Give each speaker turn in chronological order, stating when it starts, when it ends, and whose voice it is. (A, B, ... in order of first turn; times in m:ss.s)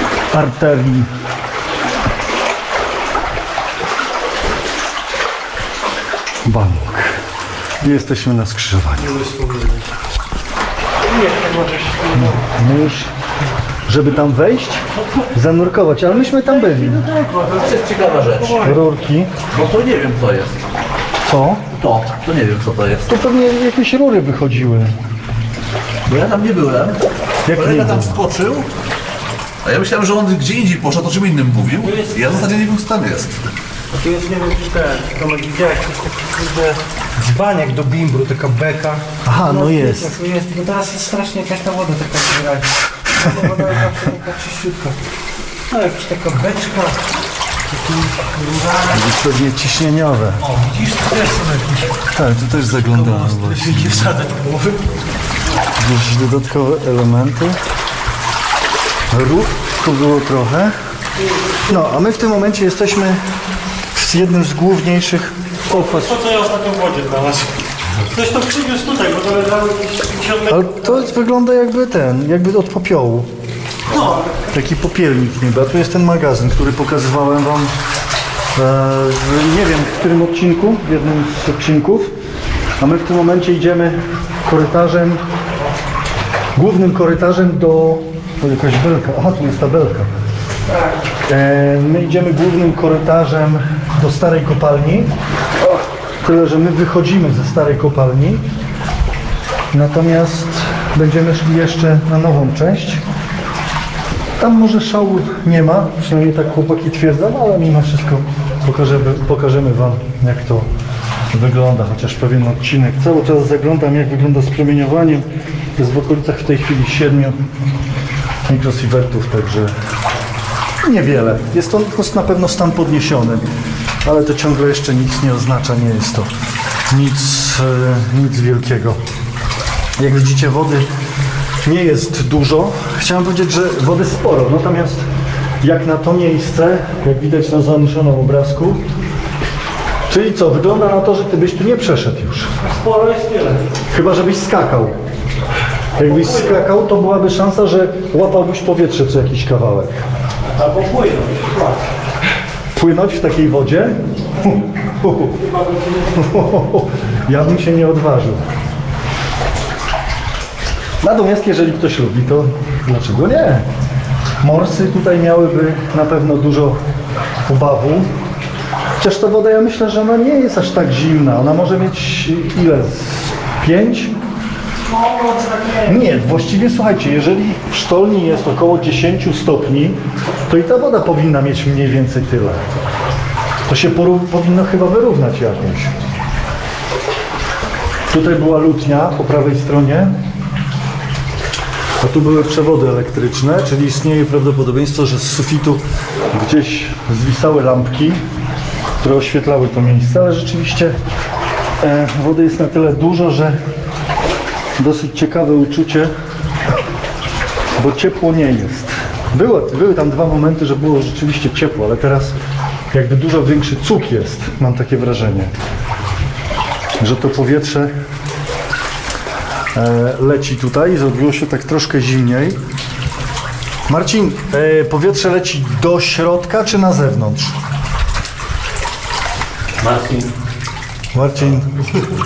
0:00.3-0:01.1 A
0:06.4-0:07.2 A
0:07.8-0:09.1 A
0:09.0-0:09.9 B
0:11.0-0:12.4 B
0:12.1-0:13.1 A
0:13.9-0:17.0 A
0:15.0-0:15.3 B
0:16.0-0:18.8 B
0:17.5-0:18.8 C
0:18.6-0:19.3 A
0:19.5-0:20.6 C
0:21.2-0:21.7 A
0:21.7-0:23.1 C
0:23.1-0:25.0 A
0:26.1-0:28.7 C
0:27.4-0:28.2 A
0:29.6-0:33.4 C
0:31.8-0:32.4 B
0:34.0-0:45.0 B
0:39.2-0:40.1 A
0:45.7-0:47.0 B
0:47.7-0:49.0 B
0:48.9-0:50.4 A
0:50.4-0:52.0 B
0:52.1-0:54.2 A
0:52.8-0:54.9 B
0:55.7-0:57.6 A
0:59.1-1:00.7 A
1:01.3-1:01.8 B
1:01.7-1:03.2 A
1:03.9-1:06.2 A
1:05.7-1:11.1 B
1:10.5-1:13.3 A
1:13.9-1:14.3 B
1:14.5-1:17.7 A
1:18.5-1:22.1 A
1:22.8-1:25.2 A
1:26.5-1:30.1 A
1:30.7-1:31.0 B
1:31.2-1:38.4 A
1:39.7-1:43.0 A
1:44.4-1:50.7 A
1:51.3-1:55.2 A
1:55.8-1:57.4 A
1:58.4-1:59.7 A
2:00.8-2:03.5 A
2:04.0-2:06.3 A
2:06.9-2:09.0 A
2:10.0-2:10.9 A
2:11.6-2:15.0 A
2:15.6-2:18.8 A
2:20.1-2:22.5 A
2:22.6-2:23.7 B
2:23.9-2:25.0 A
2:26.0-2:30.0 A
2:26.0-2:26.6 B
2:30.5-2:31.9 B
2:32.7-2:35.3 A
2:35.2-2:36.4 B
2:36.2-2:38.4 A
2:41.0-2:43.7 A
2:44.4-2:46.8 A
2:47.4-2:48.1 A
2:49.0-2:54.1 A
2:54.9-2:56.0 B
2:55.8-3:02.6 A
3:03.7-3:05.9 A
3:08.1-3:10.1 A
3:12.0-3:18.2 A
3:19.0-3:21.0 A
3:21.8-3:23.6 A
3:24.8-3:26.1 A
3:27.8-3:32.3 A
3:32.9-3:35.5 A
3:37.0-3:37.9 A
3:39.7-3:42.6 A
3:43.9-3:47.5 A
3:49.8-3:50.3 C
3:51.1-3:51.9 A